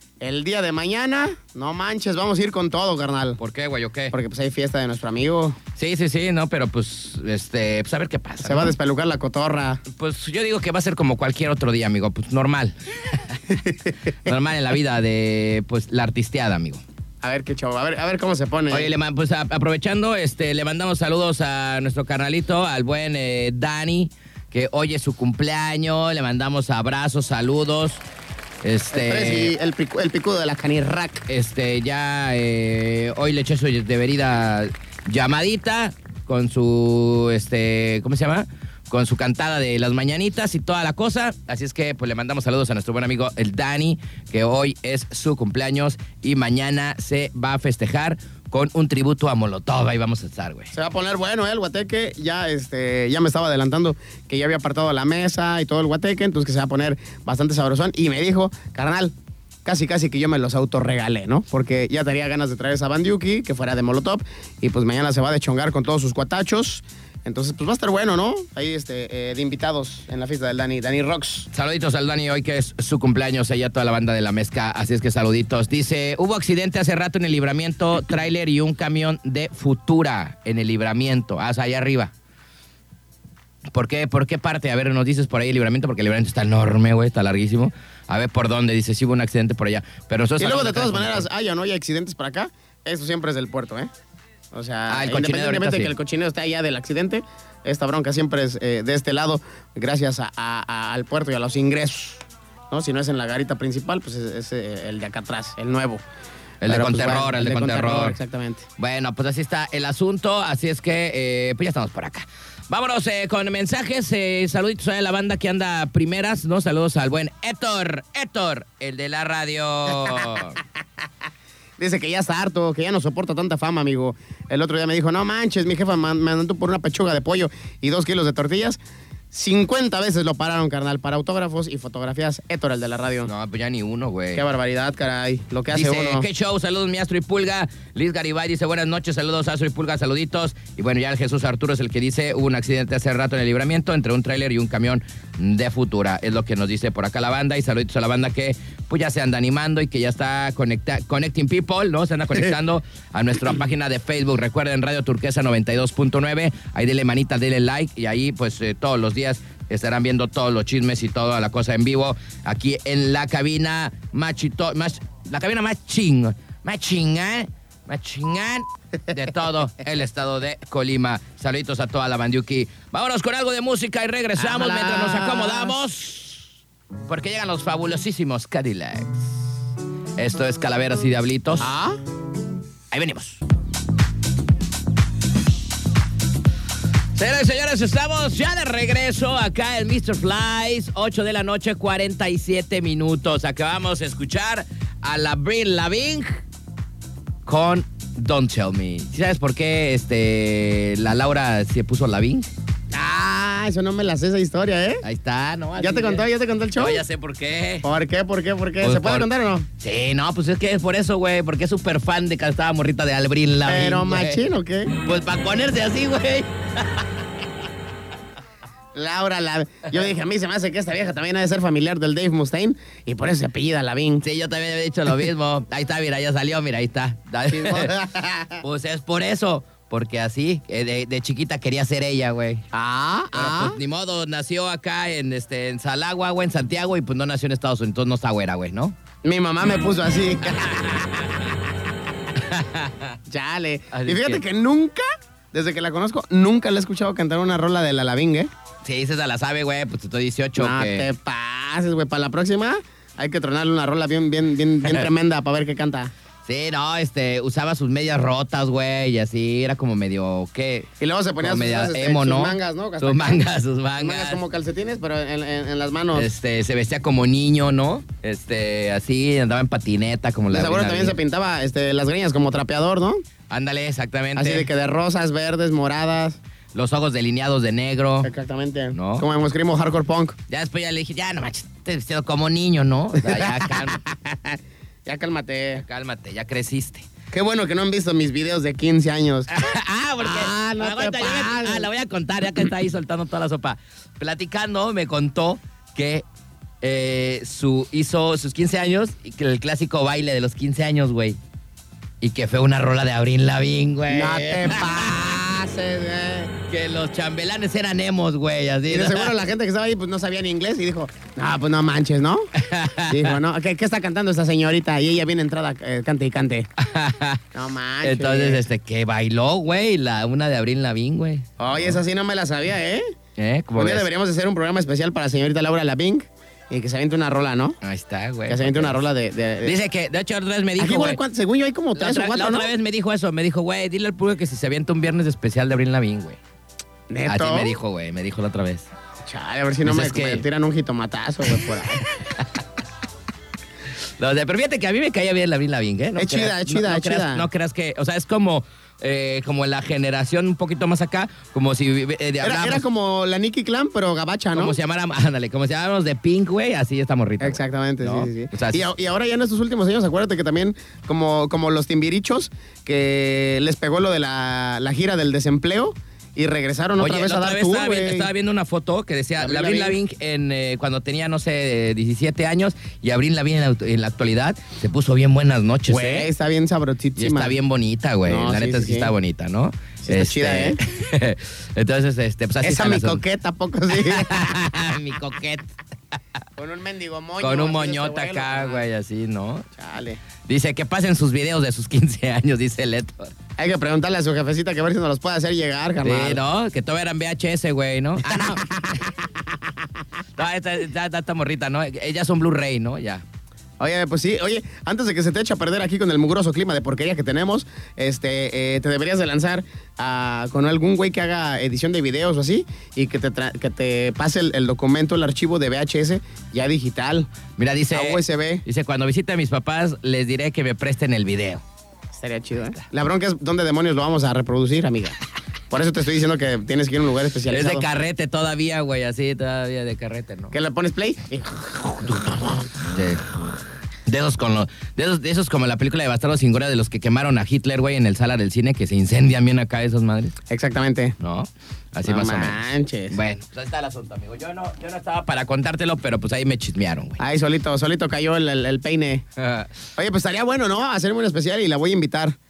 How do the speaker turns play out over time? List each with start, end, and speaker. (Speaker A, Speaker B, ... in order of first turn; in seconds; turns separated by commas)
Speaker A: 0.2-3.4, Speaker B: 3.4-4.1, Speaker A: 4.1-5.6, Speaker B: 5.8-8.7, Speaker A: 8.4-9.8, Speaker B: 9.9-13.4, Speaker A: 13.5-13.9, Speaker B: 14.2-16.8, Speaker A: 17.2-18.9, Speaker B: 18.7-28.0, Speaker B: 28.6-29.5, Speaker A: 28.9-31.2, Speaker B: 31.3-50.7, Speaker A: 50.7-71.5, Speaker B: 71.5-82.1, Speaker B: 83.7-91.3, Speaker A: 90.4-93.9, Speaker A: 94.5-106.0, Speaker B: 94.9-95.9, Speaker B: 106.6-108.2, Speaker A: 106.7-108.6, Speaker B: 108.8-120.6, Speaker A: 121.8-128.8, Speaker A: 129.3-133.3, Speaker B: 133.2-134.4, Speaker A: 134.3-136.3, Speaker B: 135.7-176.5, Speaker A: 174.4-175.7, Speaker B: 177.1-179.4, Speaker B: 180.2-181.7, Speaker A: 181.6-182.0, Speaker B: 182.9-183.4, Speaker B: 187.1-196.4, Speaker B: 197.4-202.5, Speaker A: 202.9-205.0, Speaker B: 205.0-207.9, Speaker A: 205.8-207.0, Speaker A: 207.8-209.7, Speaker B: 208.8-209.3, Speaker B: 209.8-214.4, Speaker A: 213.7-214.9, Speaker B: 214.9-217.1, Speaker A: 218.9-224.2, Speaker B: 224.2-227.9, Speaker A: 227.5-228.6, Speaker B: 228.6-232.6, Speaker A: 232.7-233.8, Speaker B: 233.3-238.9, Speaker A: 239.2-241.5, Speaker B: 240.6-241.0, Speaker B: 242.3-243.2, Speaker A: 243.3-248.5, Speaker B: 243.9-244.4, Speaker B: 248.8-251.1, Speaker A: 250.6-256.1, Speaker B: 256.4-260.9, Speaker A: 261.0-263.4, Speaker B: 261.4-264.4, Speaker A: 264.0-266.3, Speaker B: 266.1-271.1, Speaker A: 270.5-273.2, Speaker B: 273.5-274.7, Speaker A: 274.4-276.4, Speaker B: 276.7-278.3, Speaker A: 278.2-280.4, Speaker B: 278.9-279.2, Speaker B: 280.5-284.0, Speaker A: 283.2-285.8, Speaker B: 285.8-287.1, Speaker A: 287.3-289.5, Speaker B: 289.5-296.2, Speaker A: 290.2-291.9, Speaker B: 296.8-301.4, Speaker B: 302.2-305.2, Speaker A: 304.1-306.5, Speaker B: 306.7-309.3, Speaker A: 308.9-312.5, Speaker B: 312.6-313.3, Speaker A: 313.1-316.7, Speaker B: 316.8-317.4, Speaker A: 317.5-318.6, Speaker B: 318.0-322.0, Speaker A: 321.6-323.0, Speaker B: 323.4-324.1, Speaker A: 323.8-327.8, Speaker B: 327.8-329.0, Speaker A: 328.5-329.7, Speaker B: 329.6-331.2, Speaker A: 330.8-332.7, Speaker B: 331.9-336.4, Speaker A: 337.1-337.7, Speaker B: 337.3-338.9, Speaker A: 339.2-342.0, Speaker B: 339.8-340.4, Speaker B: 344.2-352.8, Speaker A: 346.1-347.5, Speaker A: 352.4-354.8, Speaker B: 354.5-358.9, Speaker A: 357.4-368.3, Speaker B: 367.0-376.3, Speaker A: 369.4-370.0, Speaker A: 375.9-377.5, Speaker B: 377.2-383.2, Speaker A: 378.2-379.1, Speaker A: 380.0-380.8, Speaker A: 382.6-384.6, Speaker B: 383.9-385.7, Speaker A: 386.6-388.8, Speaker B: 387.4-389.7, Speaker A: 389.8-390.2, Speaker B: 390.4-393.3, Speaker A: 393.6-396.4, Speaker B: 396.0-398.6, Speaker A: 398.2-399.3, Speaker B: 400.4-403.2, Speaker A: 403.8-417.3, Speaker B: 417.6-421.6, Speaker A: 417.9-418.6, Speaker A: 422.1-425.1, Speaker A: 425.7-427.9, Speaker B: 427.5-430.5, Speaker A: 430.5-432.5, Speaker B: 432.8-433.4, Speaker B: 434.1-440.4, Speaker A: 440.5-441.1, Speaker B: 441.2-447.2, Speaker A: 442.1-443.2, Speaker A: 447.2-449.2, Speaker B: 449.4-449.7, Speaker A: 449.9-452.4